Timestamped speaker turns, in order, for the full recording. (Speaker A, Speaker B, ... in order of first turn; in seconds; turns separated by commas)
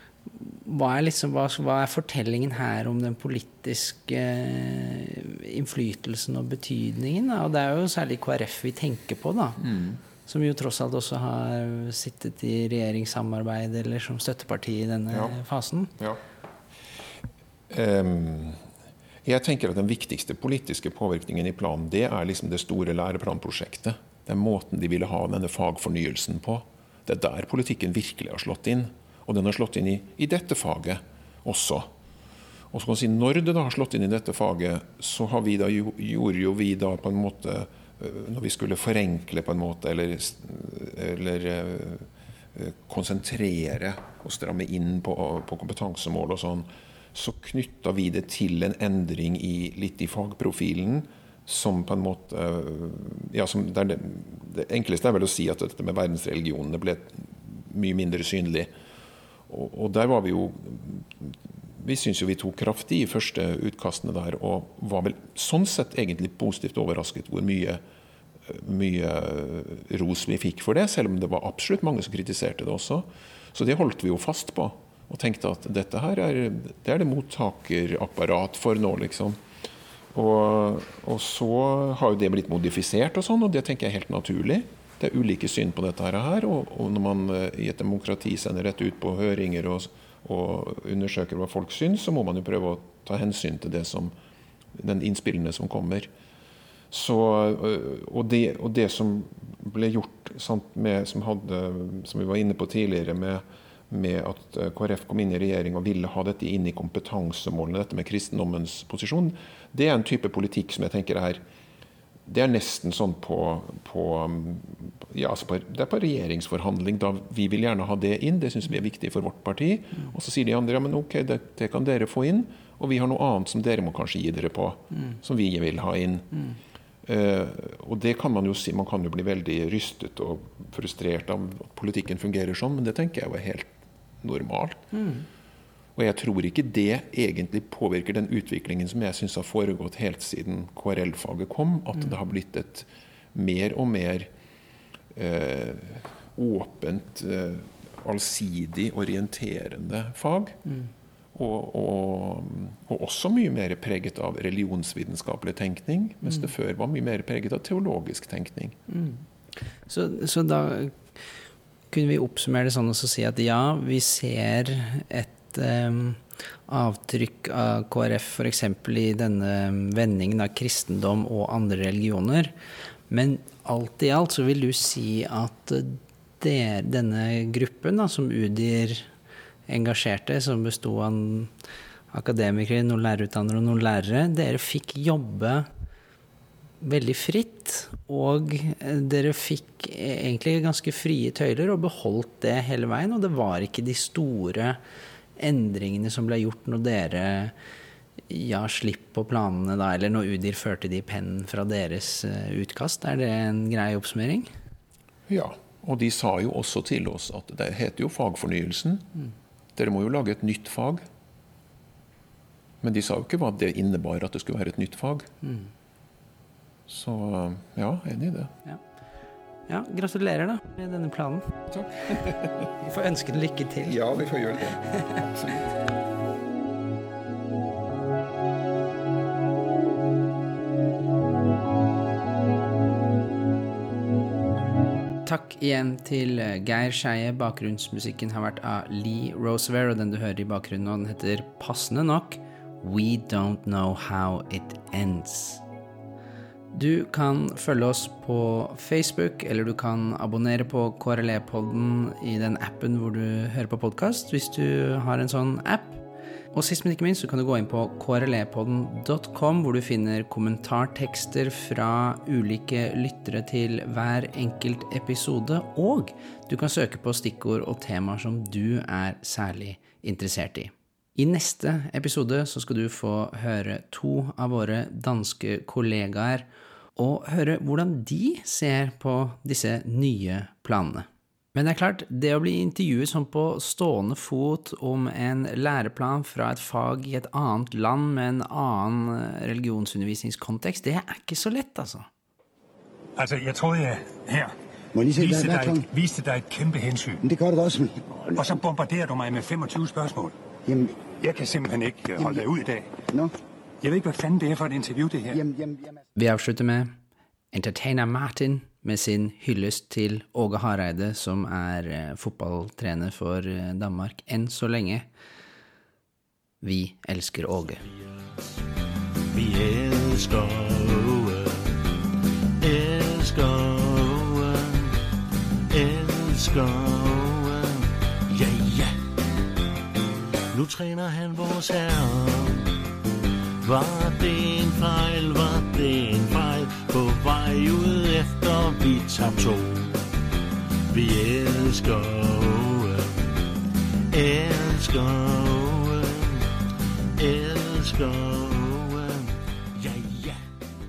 Speaker A: 0.4-9.6, Speaker B: 9.6-10.0, Speaker A: 10.2-15.9, Speaker B: 15.1-15.4, Speaker B: 17.7-18.6, Speaker B: 19.2-31.9, Speaker B: 32.7-58.7, Speaker B: 59.5-67.8, Speaker B: 68.5-79.4, Speaker B: 80.1-94.1, Speaker B: 94.8-96.1, Speaker B: 96.9-111.4, Speaker B: 112.2-126.4, Speaker B: 127.0-133.7, Speaker B: 134.2-134.8, Speaker A: 134.9-135.2, Speaker B: 135.9-144.3, Speaker B: 145.1-150.6, Speaker B: 151.3-158.8, Speaker A: 158.9-159.2, Speaker A: 159.9-161.1, Speaker A: 161.9-172.5, Speaker A: 173.1-179.1, Speaker A: 179.7-181.5, Speaker A: 182.1-185.7, Speaker A: 186.8-194.8, Speaker A: 195.4-197.5, Speaker A: 198.3-204.5, Speaker B: 205.3-209.1, Speaker B: 209.8-211.0, Speaker B: 212.8-215.3, Speaker A: 215.4-215.7, Speaker B: 216.9-218.5, Speaker A: 219.7-221.7, Speaker B: 221.7-222.7, Speaker A: 222.8-224.0, Speaker B: 223.8-225.7, Speaker A: 235.2-245.6, Speaker A: 246.7-292.1, Speaker C: 293.1-294.5, Speaker D: 294.9-295.9, Speaker C: 295.1-297.2, Speaker D: 297.2-298.6, Speaker C: 298.3-300.4, Speaker D: 300.7-300.9, Speaker C: 301.2-303.0, Speaker D: 302.2-302.4, Speaker C: 303.8-305.4, Speaker D: 305.3-305.9, Speaker A: 306.2-306.9, Speaker A: 307.5-315.1, Speaker A: 316.6-317.8, Speaker E: 319.3-321.8, Speaker E: 322.6-324.9, Speaker E: 325.7-329.0, Speaker E: 330.5-332.7, Speaker E: 333.6-340.1, Speaker E: 340.9-343.3, Speaker E: 344.1-346.5, Speaker E: 347.2-350.4